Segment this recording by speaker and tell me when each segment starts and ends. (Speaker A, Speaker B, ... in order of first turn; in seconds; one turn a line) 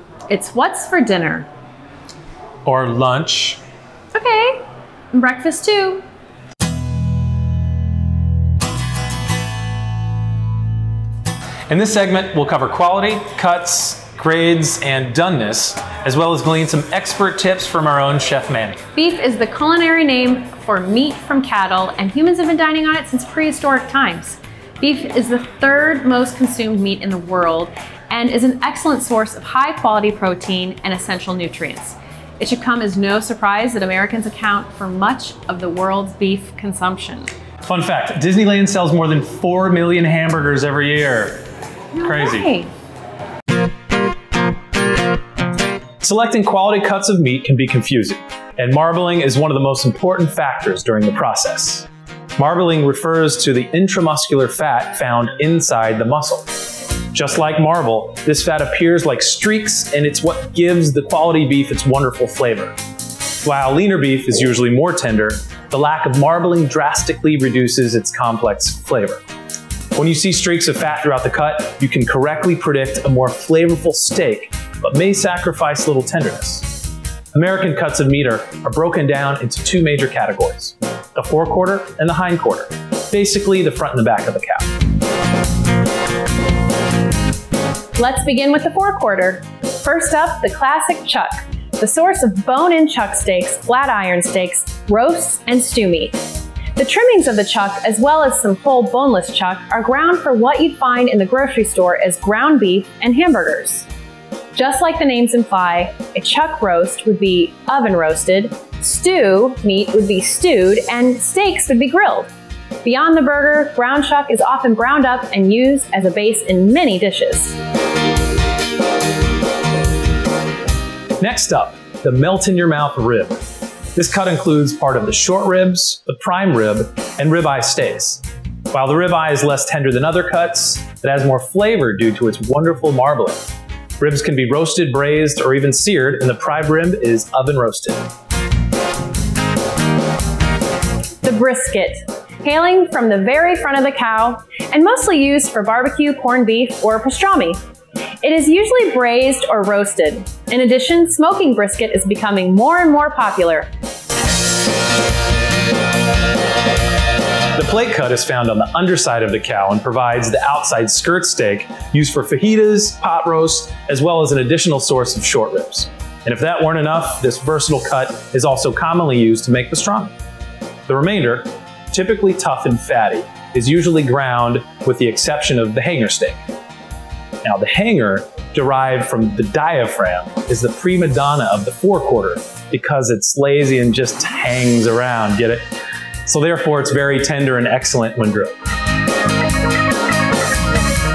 Speaker A: 0.3-1.5
Speaker B: 2.6-3.6
Speaker A: 4.1-4.6
Speaker A: 5.1-6.0
Speaker B: 11.7-18.8
Speaker A: 18.9-37.3
Speaker B: 37.6-41.4
Speaker A: 42.0-42.7
Speaker B: 42.0-42.5
Speaker B: 46.0-62.8
Speaker B: 63.4-69.2
Speaker B: 69.9-76.7
Speaker B: 77.3-84.7
Speaker A: 88.0-103.9
Speaker A: 104.5-112.3
Speaker A: 112.8-117.5
Speaker B: 121.2-123.4
Speaker B: 123.9-133.4
Speaker B: 134.0-138.1
Speaker A: 141.2-147.6
Speaker A: 148.2-153.7
Speaker B: 157.5-170.1
Speaker B: 170.9-176.4
Speaker B: 177.4-185.6
Speaker B: 186.2-188.5